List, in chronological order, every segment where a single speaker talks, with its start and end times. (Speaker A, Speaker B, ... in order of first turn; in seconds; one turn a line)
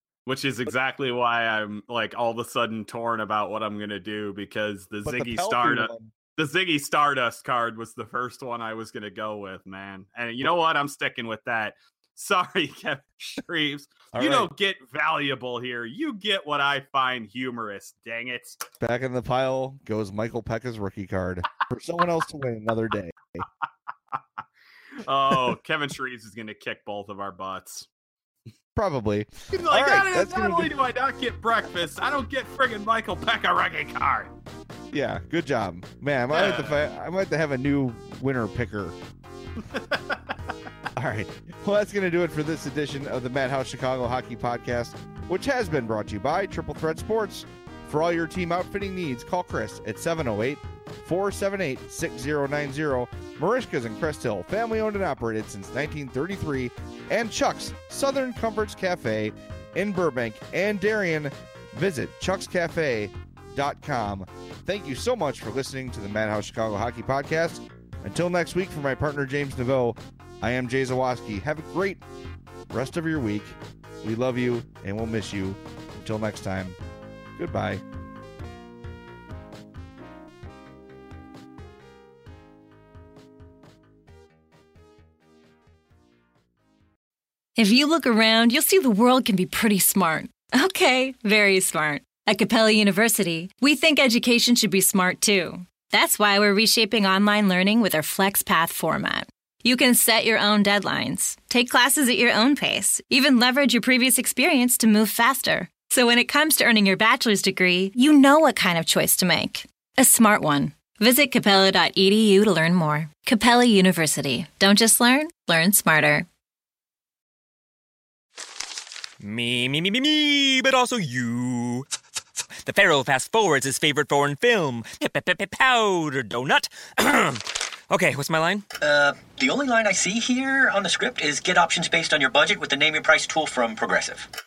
Speaker A: 0.3-18.6
Speaker B: 5.0-6.1
Speaker B: 14.1-14.5
Speaker B: 18.8-23.5
Speaker A: 25.0-27.9
Speaker B: 28.8-30.7
Speaker A: 29.5-34.3
Speaker B: 34.9-39.0
Speaker A: 36.3-36.9
Speaker A: 39.7-40.4
Speaker B: 41.0-72.0
Speaker B: 72.7-76.8
Speaker B: 77.4-77.8
Speaker C: 87.6-116.3
Speaker D: 119.2-121.9
Speaker D: 122.6-128.7
Speaker E: 128.8-134.3